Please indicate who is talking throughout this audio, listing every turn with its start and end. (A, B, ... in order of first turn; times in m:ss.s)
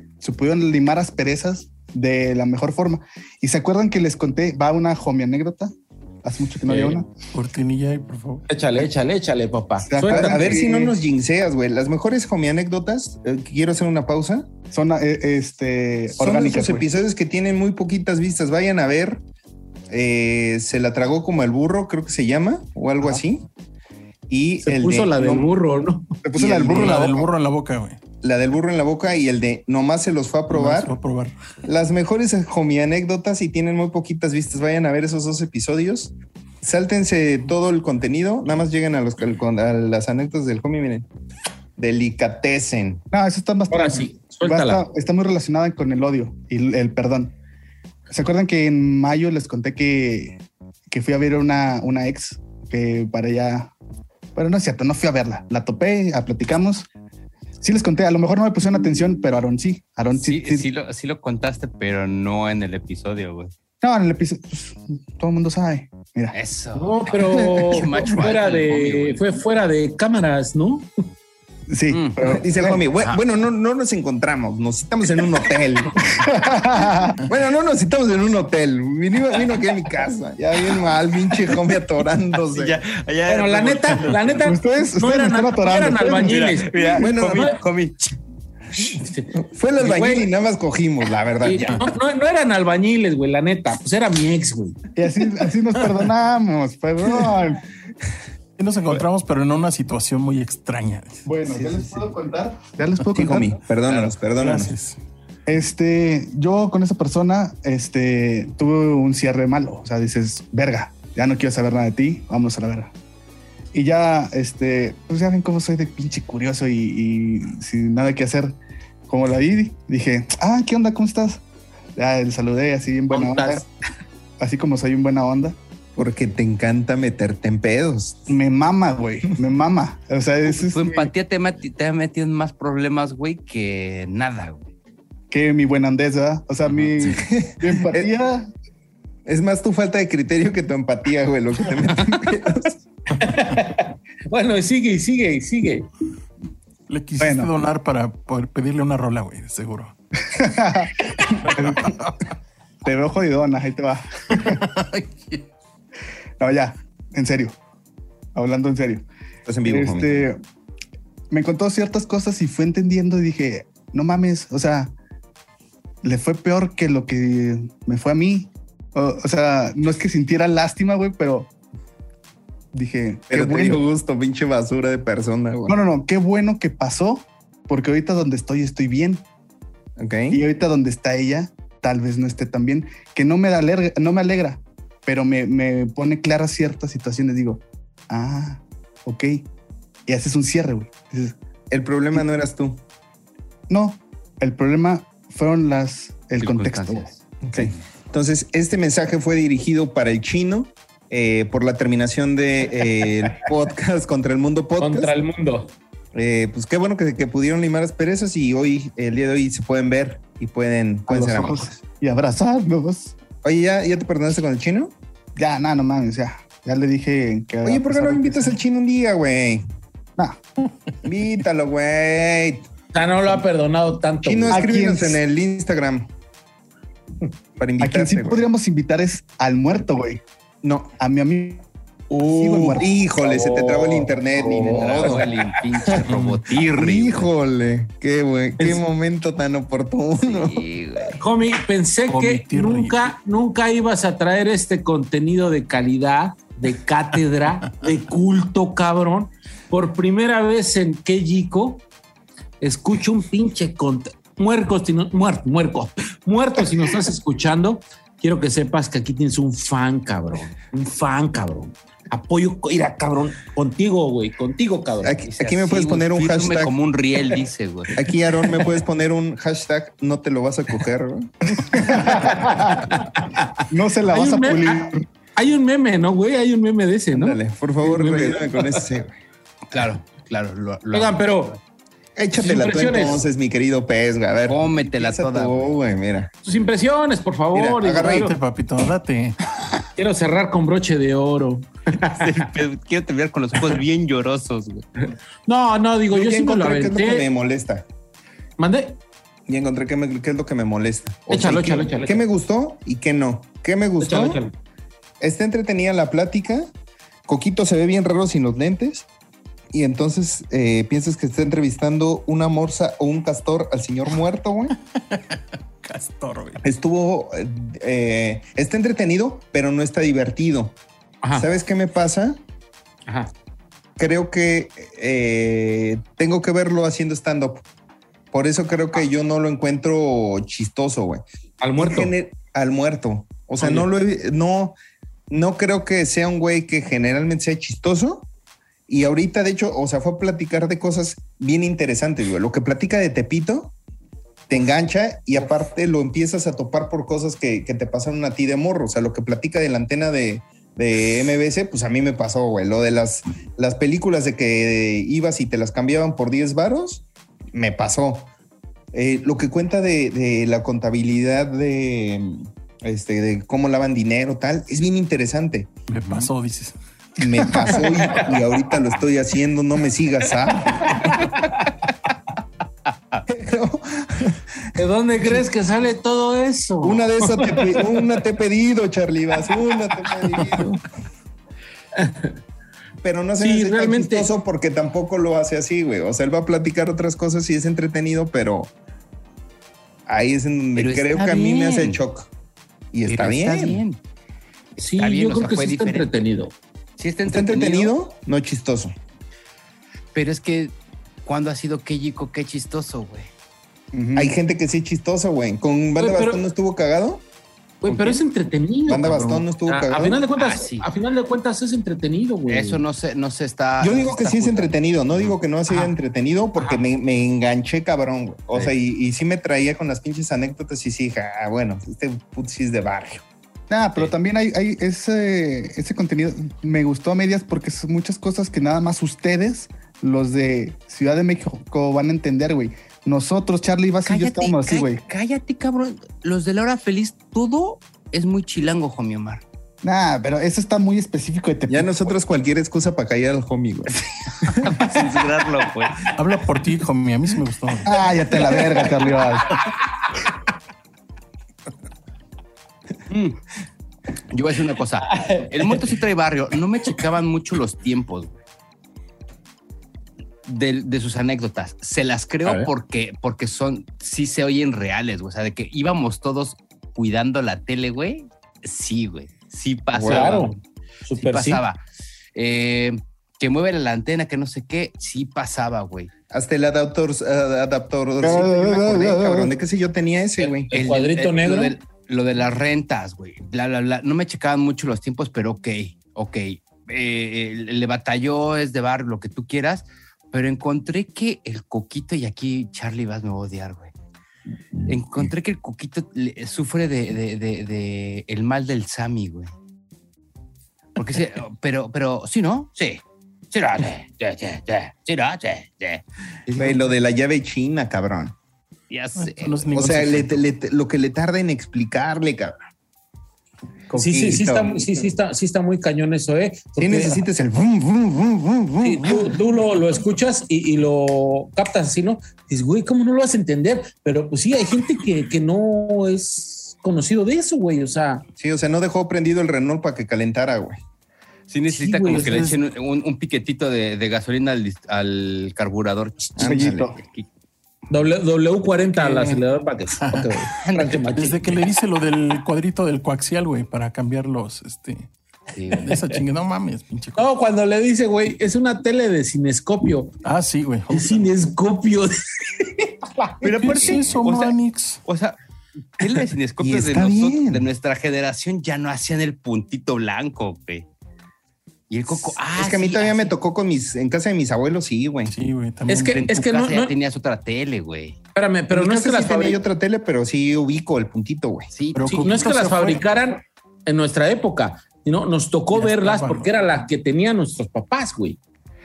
0:00.2-0:07.1 A
0:06.7-0:07.0 B
0:07.3-0:08.4 C
0:08.5-0:10.7 B
0:09.8-0:11.0 A
0:10.0-0:14.5 D
0:14.7-0:17.0 A
0:16.2-0:19.2 D
0:19.9-0:23.5 D
0:24.3-0:25.5 D
0:24.6-0:26.1 B
0:26.2-0:27.3 D
0:26.4-0:27.2 A
0:26.6-0:28.0 C
0:28.2-0:31.0 D
0:30.5-0:31.4 C
0:31.6-0:41.1 D
0:41.8-0:43.0 D
0:43.1-0:47.4 A
0:43.7-0:44.8 B
0:48.1-0:50.4 A
0:50.9-0:53.7 A
0:54.4-0:56.9 A
0:57.6-1:00.7 A
1:00.1-1:03.5 E
1:03.8-1:06.4 A
1:06.3-1:09.2 E
1:06.8-1:10.9 B
1:11.7-1:12.8 A
1:11.9-1:12.4 E
1:12.2-1:16.0 D
1:16.1-1:17.2 A
1:17.2-1:22.8 D
1:22.5-1:24.5 E
1:23.3-1:27.6 B
1:24.4-1:26.5 A
1:26.2-1:28.1 E
1:27.0-1:27.6 D
1:29.0-1:30.3 B
1:29.3-1:31.9 D
1:31.4-1:34.8 B
1:35.0-1:37.6 A
1:38.6-1:41.2 C
1:41.2-1:43.6 A
1:43.2-1:45.0 D
1:43.9-1:44.8 C
1:45.5-1:52.9 A
1:53.7-1:58.6 A
1:59.1-2:01.4 A
2:02.0-2:03.6 A
2:03.1-2:03.6 B
2:04.4-2:05.6 A
2:06.0-2:08.3 D
2:08.3-2:11.1 A
2:10.5-2:14.6 E
2:15.3-2:18.5 A
2:16.8-2:17.2 E
2:17.1-2:18.1 D
2:19.3-2:22.8 D
2:23.2-2:25.9 B
2:26.9-2:29.9 C
2:27.2-2:27.5 A
2:30.3-2:31.9 A
2:31.2-2:32.2 C
2:32.8-2:34.7 A
2:34.4-2:35.5 C
2:36.4-2:37.6 A
2:38.4-2:39.1 A
2:39.5-2:40.3 D
2:39.6-2:40.4 A
2:41.3-2:44.9 A
2:46.0-2:51.5 A
2:52.7-2:53.8 A
2:53.3-2:55.8 D
2:55.7-2:59.2 A
3:00.0-3:00.4 D
3:00.3-3:09.5 A
3:10.1-3:11.4 A
3:11.7-3:12.8 D
3:13.7-3:17.7 A
3:16.4-3:17.2 E
3:17.4-3:25.1 D
3:24.8-3:25.7 B
3:26.1-3:31.8 D
3:31.1-3:33.1 A
3:33.4-3:34.9 D
3:35.4-3:38.6 A
3:37.6-3:39.6 D
3:41.0-3:42.7 D
3:42.9-3:44.6 B
3:44.2-3:46.1 D
3:44.5-3:45.2 A
3:47.6-3:48.5 D
3:47.8-3:50.2 A
3:50.6-3:51.0 D
3:51.0-3:51.7 A
3:52.1-3:55.5 B
3:52.2-3:52.9 A
3:52.7-3:55.3 D
3:54.4-3:57.3 E
3:56.1-3:56.4 C
3:56.7-4:01.1 D
4:00.2-4:01.2 E
4:01.2-4:11.8 B
4:02.1-4:03.1 C
4:12.6-4:25.2 B
4:25.0-4:26.8 D
4:25.2-4:28.0 E
4:27.9-4:32.0 D
4:31.7-4:32.8 A
4:32.1-4:33.5 B
4:33.7-4:35.0 A
4:34.1-4:38.9 B
4:37.1-4:39.2 D
4:39.7-4:41.5 E
4:40.9-4:41.6 B
4:42.2-4:46.3 D
4:42.4-4:43.3 B
4:44.5-4:45.8 E
4:46.4-4:48.4 B
4:47.5-4:48.3 D
4:48.1-4:49.8 C
4:50.0-4:52.4 B
4:52.1-4:54.8 E
4:55.5-4:57.3 B
4:56.1-4:57.8 D
4:58.6-4:59.0 B
4:59.5-5:04.4 D
5:01.3-5:02.2 B
5:04.0-5:04.5 B
5:05.2-5:06.7 D
5:07.3-5:09.1 D
5:09.7-5:14.8 D
5:14.9-5:16.6 C
5:16.6-5:20.8 D
5:21.3-5:22.4 D
5:23.1-5:23.3 B
5:24.0-5:27.6 D
5:28.3-5:31.2 D
5:31.6-5:32.1 B
5:31.8-5:34.8 D
5:33.6-5:33.9 B
5:35.3-5:38.3 D
5:38.9-5:43.7 D
5:44.5-5:58.3 D
5:58.9-6:05.8 D
6:05.9-6:06.8 C
6:07.2-6:11.3 D
6:13.3-6:14.7 D
6:14.8-6:18.1 B
6:16.8-6:20.9 D
6:22.0-6:22.3 B
6:23.0-6:28.7 D
6:23.4-6:24.3 B
6:30.1-6:32.3 D
6:30.8-6:32.0 E
6:32.9-6:33.8 D
6:33.1-6:34.0 E
6:34.8-6:36.1 E
6:34.8-6:36.5 B
6:37.0-6:38.0 E
6:37.3-6:39.0 D
6:40.2-6:40.8 E
6:41.3-6:43.3 E
6:43.9-6:44.4 A
6:44.2-6:47.2 D
6:46.0-6:46.4 B
6:47.8-6:52.8 B
6:47.9-6:48.2 E
6:48.9-6:50.2 D
6:50.3-6:50.9 E
6:52.5-6:55.4 E
6:53.8-7:03.2 D
7:03.7-7:15.0 A
7:14.1-7:19.4 E
7:19.8-7:22.1 A
7:21.7-7:24.8 D
7:24.5-7:26.1 E
7:26.2-7:27.9 C
7:27.8-7:29.5 A
7:28.5-7:29.0 B
7:29.5-7:30.3 B
7:33.1-7:33.4 E
7:34.3-7:38.3 E
7:35.1-7:35.9 B
7:40.5-7:50.5 E
7:49.9-7:50.5 D
7:50.1-7:51.6 B
7:51.2-7:51.8 E
7:52.4-7:56.1 E
7:56.3-8:00.7 D
7:58.2-7:59.6 A
8:00.4-8:01.8 B
8:00.7-8:13.9 E
8:14.9-8:19.5 E
8:21.0-8:26.8 E
8:26.6-8:28.4 D
8:28.9-8:29.8 E
8:29.2-8:30.4 C
8:29.7-8:32.6 D
8:33.9-8:35.0 D
8:33.9-8:37.2 B
8:36.8-8:39.3 D
8:38.8-8:48.2 B
8:48.4-8:50.8 D
8:51.5-8:57.3 E
8:51.7-8:52.6 B
8:52.1-8:52.5 C
8:56.4-8:56.9 D
8:56.4-8:57.0 A
8:57.9-9:01.4 B
8:59.0-8:59.4 C
9:00.0-9:00.4 C
9:00.6-9:01.4 E
9:01.1-9:05.1 C
9:05.5-9:06.0 E
9:05.8-9:07.3 C
9:07.2-9:10.1 B
9:10.2-9:11.3 C
9:10.9-9:13.9 B
9:13.4-9:15.4 E
9:13.5-9:15.0 C
9:16.0-9:20.9 E
9:16.6-9:17.7 D
9:21.9-9:23.3 E
9:22.2-9:25.3 D
9:25.3-9:26.5 C
9:25.9-9:26.9 B
9:26.1-9:28.2 E
9:28.4-9:29.6 B
9:28.7-9:31.7 D
9:31.7-9:32.2 E
9:31.9-9:33.0 C
9:32.0-9:38.4 B
9:35.7-9:36.5 C